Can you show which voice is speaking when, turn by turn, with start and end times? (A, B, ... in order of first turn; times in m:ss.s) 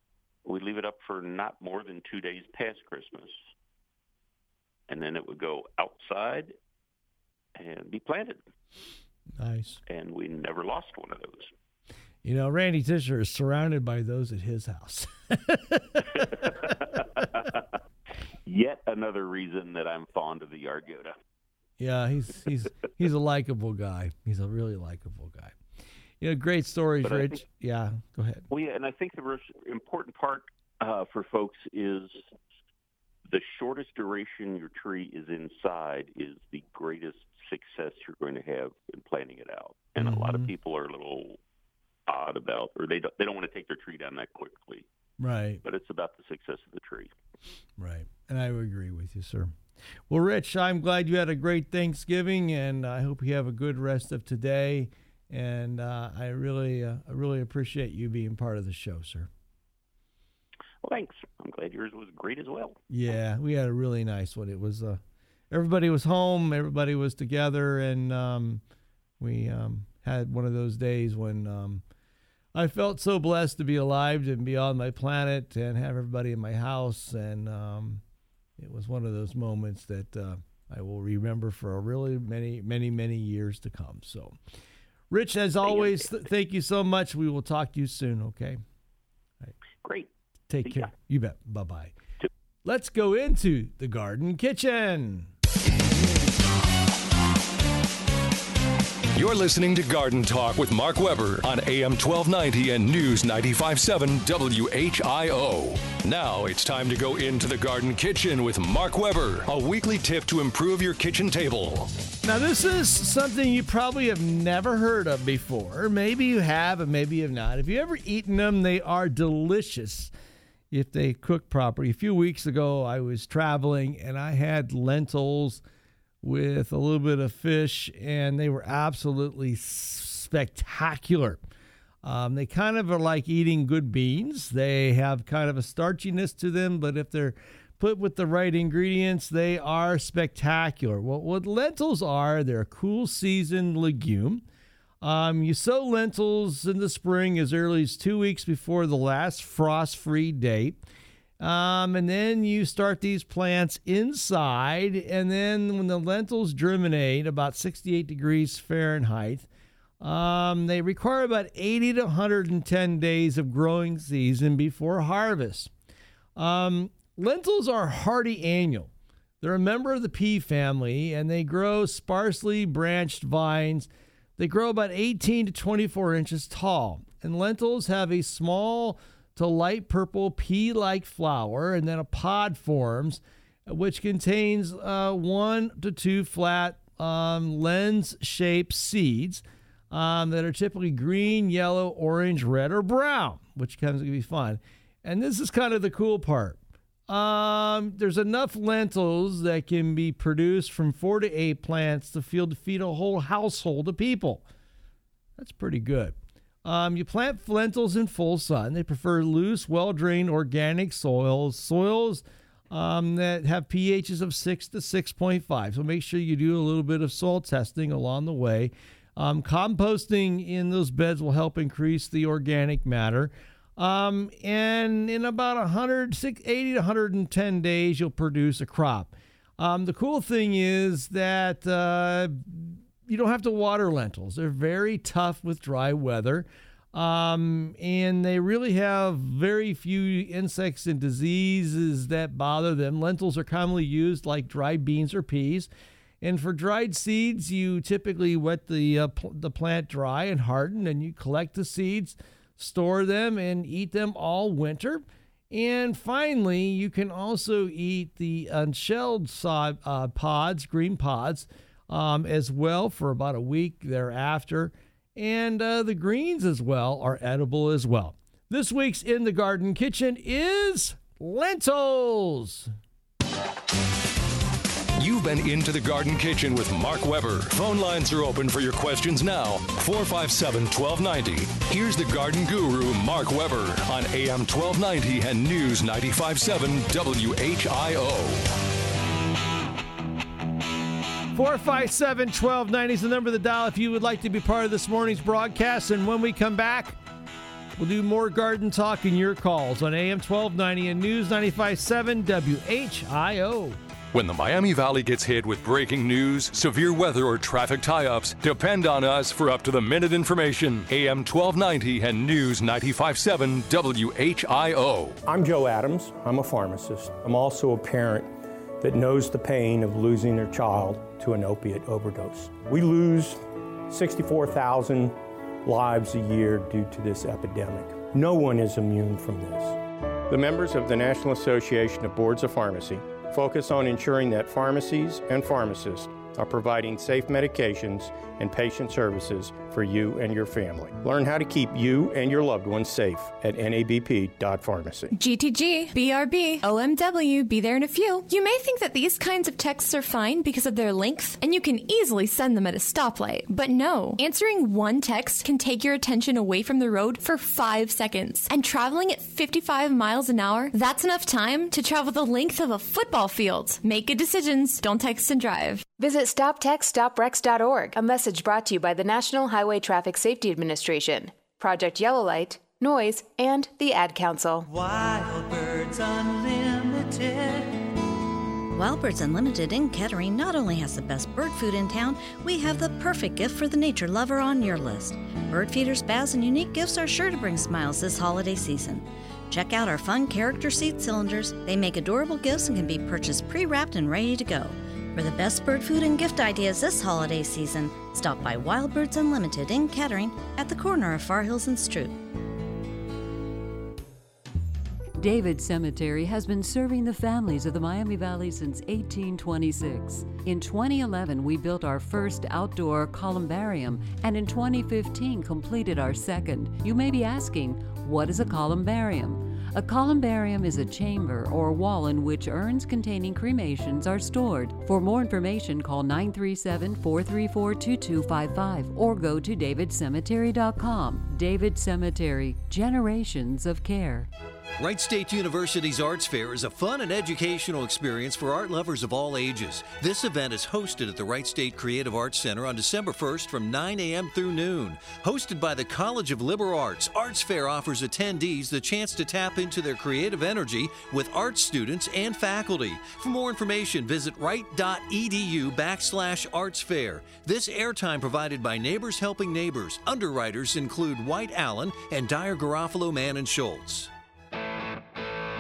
0:00.4-0:03.4 A
0:04.9-0:06.6 A
0:07.6-0:08.4 A
0:09.4-0:09.8 B
0:09.9-0:11.5 A
0:12.2-0:16.5 B
0:16.6-0:17.6 A
0:18.5-0:21.2 A
0:21.8-0:25.6 B
0:26.2-0:28.4 B
0:27.0-0:27.4 A
0:28.5-0:32.3 A
0:33.3-0:41.4 A
0:40.0-0:40.5 B
0:42.1-0:44.9 A
0:45.2-0:45.6 B
0:45.6-0:47.1 A
0:47.8-0:49.6 B
0:50.1-0:59.3 B
1:00.8-1:02.8 A
1:02.9-1:08.6 B
1:09.2-1:11.8 B
1:12.5-1:18.0 B
1:18.6-1:24.4 B
1:25.1-1:28.6 B
1:25.6-1:26.0 A
1:29.8-1:30.1 A
1:30.5-1:31.9 B
1:30.6-1:30.9 A
1:32.6-1:35.3 B
1:39.2-1:51.9 C
1:52.2-2:00.1 B
2:00.7-2:05.6 B
2:06.2-2:11.4 B
2:12.0-2:24.4 B
2:25.0-2:30.8 B
2:31.4-2:39.5 B
2:40.0-2:45.7 B
2:46.4-3:24.5 B
3:25.4-4:05.7 B
4:06.2-4:32.7 B
4:35.0-4:48.5 C
4:51.3-4:57.0 B
4:57.8-5:03.8 B
5:04.1-5:15.2 C
5:15.3-5:45.1 D
5:45.1-6:05.8 E
6:06.0-6:14.7 F
6:18.8-6:42.2 G
6:45.2-7:14.3 H
7:14.8-7:44.1 I